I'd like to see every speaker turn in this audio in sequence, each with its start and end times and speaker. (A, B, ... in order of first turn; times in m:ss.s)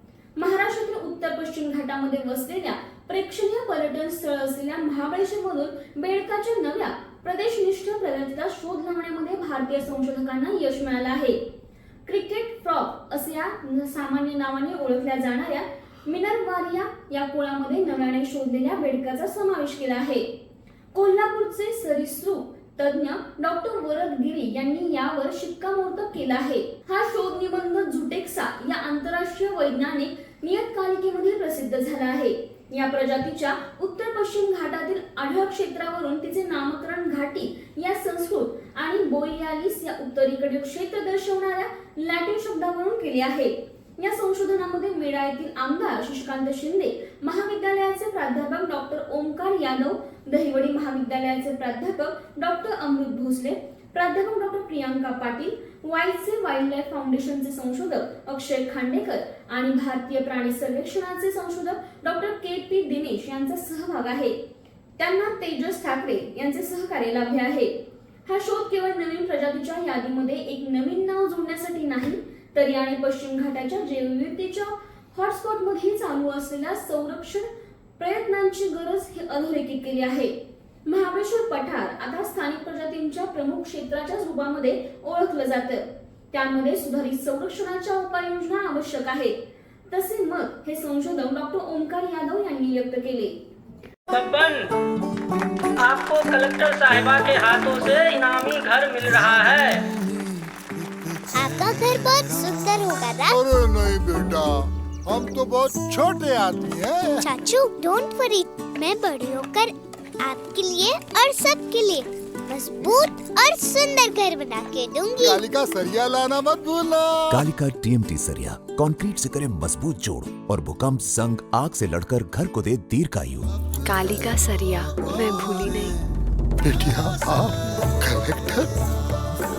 0:00.4-0:11.4 A
0:12.0-0:20.3 A
0:20.9-1:04.4 A
1:05.0-1:07.7 A
1:08.2-1:20.3 A
1:20.9-1:29.4 A
1:29.9-1:33.4 A
1:34.1-1:34.6 B
1:35.8-1:39.8 B
1:41.3-1:43.4 C
1:43.3-1:44.5 D
1:45.0-1:47.3 D
1:47.2-1:55.4 C
1:55.2-1:57.1 D
1:57.3-2:03.5 E
2:03.8-2:06.0 F
2:06.6-2:08.7 D